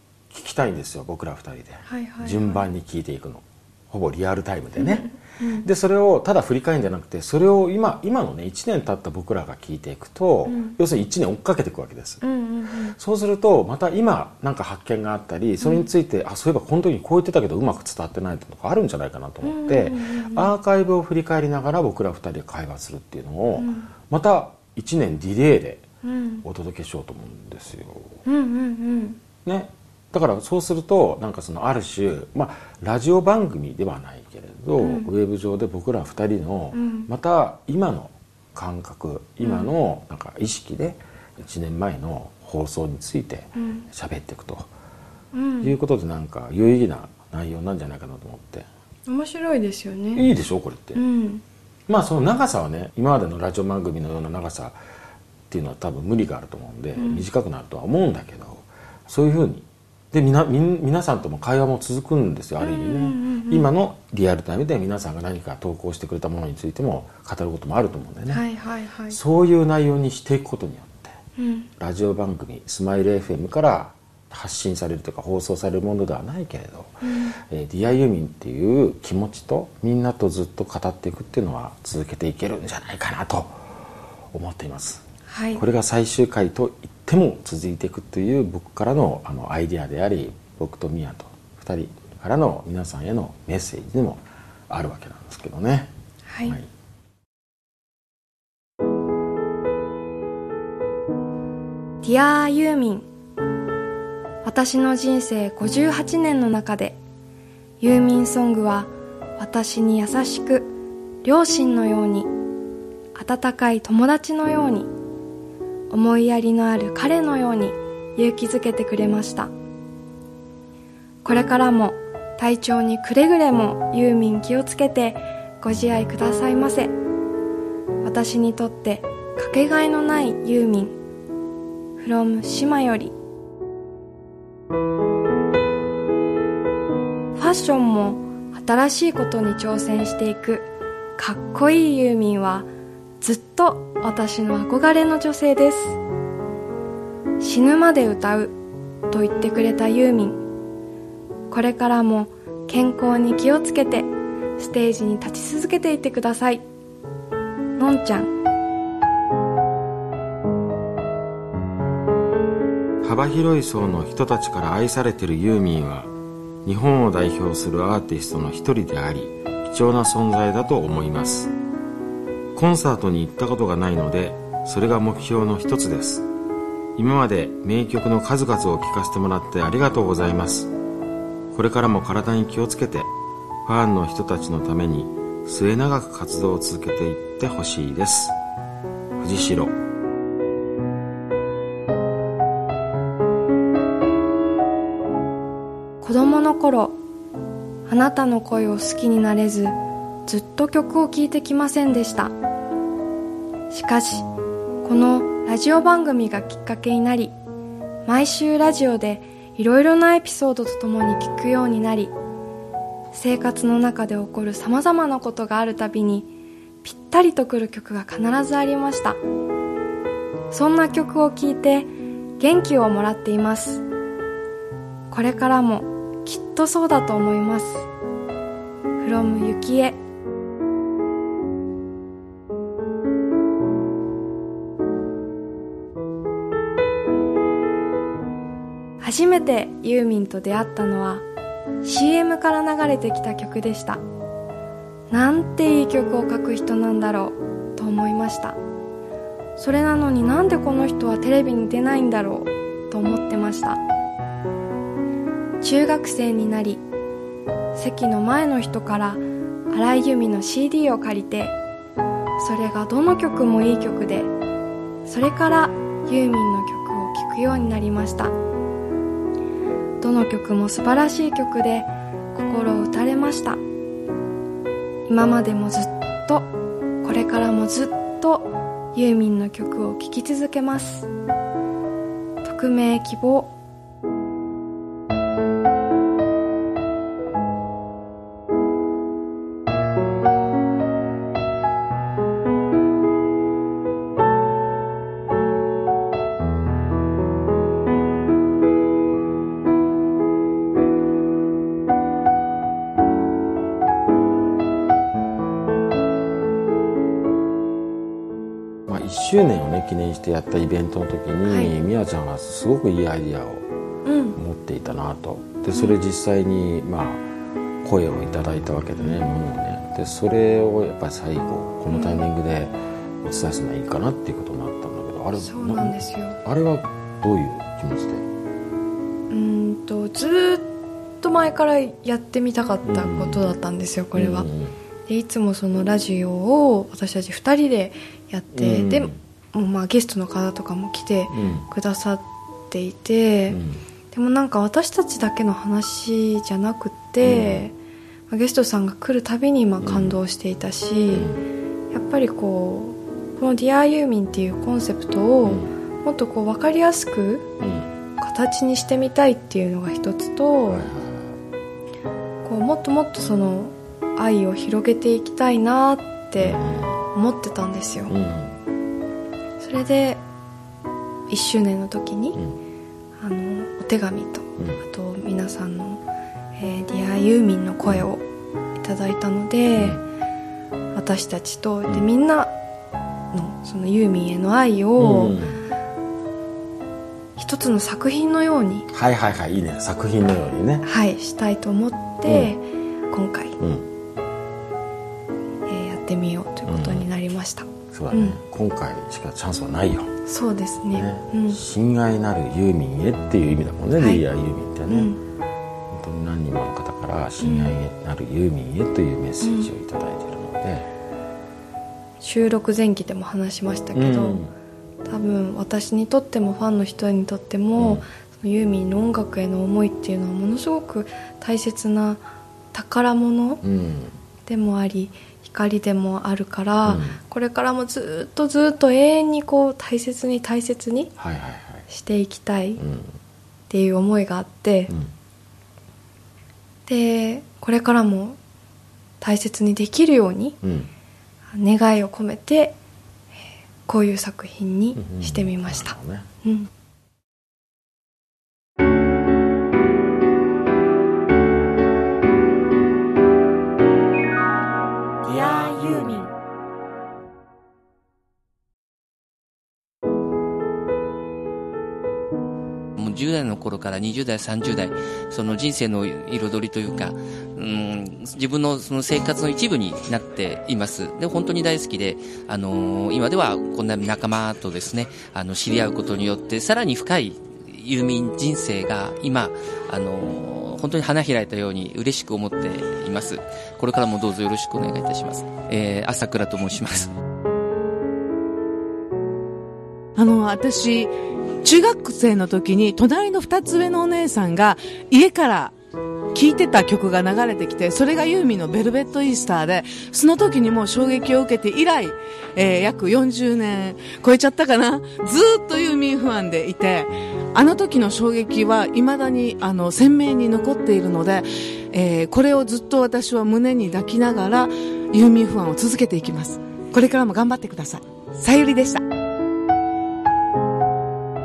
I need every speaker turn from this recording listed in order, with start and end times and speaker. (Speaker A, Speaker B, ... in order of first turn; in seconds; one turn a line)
Speaker A: 0.3-12.2
Speaker B: 1.9-2.6
Speaker B: 4.8-5.7
Speaker B: 10.5-10.8
Speaker B: 12.2-12.9
Speaker A: 12.9-25.9
Speaker B: 15.6-15.9
Speaker B: 19.4-20.5
Speaker B: 23.5-23.9
Speaker B: 26.0-26.4
Speaker A: 26.4-28.2
Speaker B: 28.2-29.2
Speaker A: 29.4-44.7
Speaker B: 34.8-35.1
Speaker B: 36.7-37.1
Speaker B: 39.4-39.7
Speaker B: 43.5-43.9
Speaker B: 45.3-45.8
Speaker A: 45.6-48.7
Speaker B: 49.1-50.2
Speaker A: 50.1-51.0
Speaker B: 50.9-51.4
Speaker A: 51.9-54.8
Speaker A: 55.5-68.4
Speaker B: 57.0-57.2
Speaker B: 62.6-63.7
Speaker B: 68.3-69.2
Speaker A: 69.1-71.2
Speaker B: 71.4-71.7
Speaker A: 71.8-83.6
Speaker B: 77.0-77.4
Speaker A: 84.3-85.0
Speaker B: 85.3-85.6
Speaker A: 85.5-95.9
Speaker B: 96.3-96.5
Speaker B: 102.0-103.1
Speaker B: 104.4-107.0
Speaker B: 107.8-110.7
Speaker B: 111.2-112.3
Speaker B: 113.1-114.9
Speaker B: 115.9-119.5
Speaker B: 121.2-126.9
Speaker B: 128.0-130.9
Speaker B: 132.0-133.1
Speaker B: 137.3-142.7
Speaker B: 143.2-146.0
Speaker B: 147.4-148.6
Speaker B: 149.1-150.4
Speaker B: 151.5-156.6
Speaker B: 157.8-158.3
Speaker A: 163.0-166.1
Speaker A: 166.6-171.5
Speaker A: 172.5-176.3
Speaker A: 176.9-180.7
Speaker A: 181.5-183.1
Speaker A: 183.6-188.3
Speaker A: 189.2-189.7
Speaker B: 196.0-197.0
Speaker B: 197.9-202.3
Speaker B: 203.7-204.3
Speaker B: 204.8-207.3
Speaker B: 208.1-212.1
Speaker B: 213.1-216.3
Speaker B: 216.8-219.2
Speaker B: 220.5-223.8
Speaker B: 225.1-227.9
Speaker B: 229.0-230.0
Speaker B: 239.0-241.2
Speaker B: 241.8-244.0
Speaker B: 245.1-248.6
Speaker B: 249.6-253.8
Speaker B: 255.6-256.8
Speaker B: 257.7-261.6
Speaker B: 262.4-264.3
Speaker B: 265.1-268.3
Speaker B: 270.0-273.6
Speaker B: 275.1-276.5
Speaker B: 277.0-281.1
Speaker B: 282.4-283.5
Speaker A: 308.9-313.7
Speaker B: 311.4-311.7
Speaker B: 314.0-314.4
Speaker A: 314.4-317.2
Speaker A: 317.8-328.2
Speaker B: 318.9-319.2
Speaker B: 321.9-322.2
Speaker B: 325.4-326.4
Speaker B: 329.3-330.7
Speaker B: 331.2-334.5
Speaker A: 332.8-333.5
Speaker A: 334.1-334.7
Speaker B: 335.1-343.6
Speaker A: 338.5-339.2
Speaker A: 341.3-341.7
Speaker A: 343.5-343.8
Speaker B: 344.1-347.7
Speaker A: 347.2-347.6
Speaker B: 348.3-351.3
Speaker A: 349.8-350.2
Speaker A: 351.1-351.4
Speaker B: 351.9-357.5
Speaker A: 355.4-355.7
Speaker A: 357.6-357.9
Speaker B: 358.2-360.9
Speaker A: 360.7-361.4
Speaker B: 362.4-366.6
Speaker A: 366.4-367.0
Speaker B: 367.1-368.1
Speaker A: 368.1-368.6
Speaker B: 369.6-370.2
Speaker B: 371.3-372.4
Speaker B: 373.2-376.0
Speaker B: 376.6-378.2
Speaker B: 378.8-380.0
Speaker A: 379.8-380.0
Speaker B: 380.9-382.5
Speaker B: 383.3-385.4
Speaker A: 385.0-385.6
Speaker B: 387.4-388.9
Speaker A: 388.9-390.8
Speaker B: 390.8-393.6
Speaker A: 392.2-392.5
Speaker A: 393.6-393.9
Speaker B: 395.7-398.4
Speaker A: 396.6-397.1
Speaker A: 397.9-400.1
Speaker B: 400.3-401.6
Speaker A: 400.9-405.1
Speaker B: 404.0-404.2
Speaker B: 404.9-405.2
Speaker A: 405.9-410.9
Speaker B: 407.4-407.8
Speaker B: 409.4-409.7
Speaker B: 412.2-414.4
Speaker A: 413.9-414.5
Speaker B: 415.1-423.6
Speaker A: 417.8-418.1
Speaker A: 423.6-424.1
Speaker B: 424.4-431.1
Speaker A: 426.8-427.2
Speaker A: 431.2-431.9
Speaker B: 431.9-432.8
Speaker A: 432.8-433.1
Speaker B: 433.7-434.9
Speaker B: 436.9-438.4
Speaker B: 439.2-440.6
Speaker A: 440.6-440.9
Speaker B: 441.5-442.8
Speaker B: 443.9-446.7
Speaker A: 444.9-446.2
Speaker B: 455.3-456.2
Speaker C: 462.9-487.1
Speaker D: 490.2-491.1
Speaker D: 491.6-495.7
Speaker D: 496.3-519.0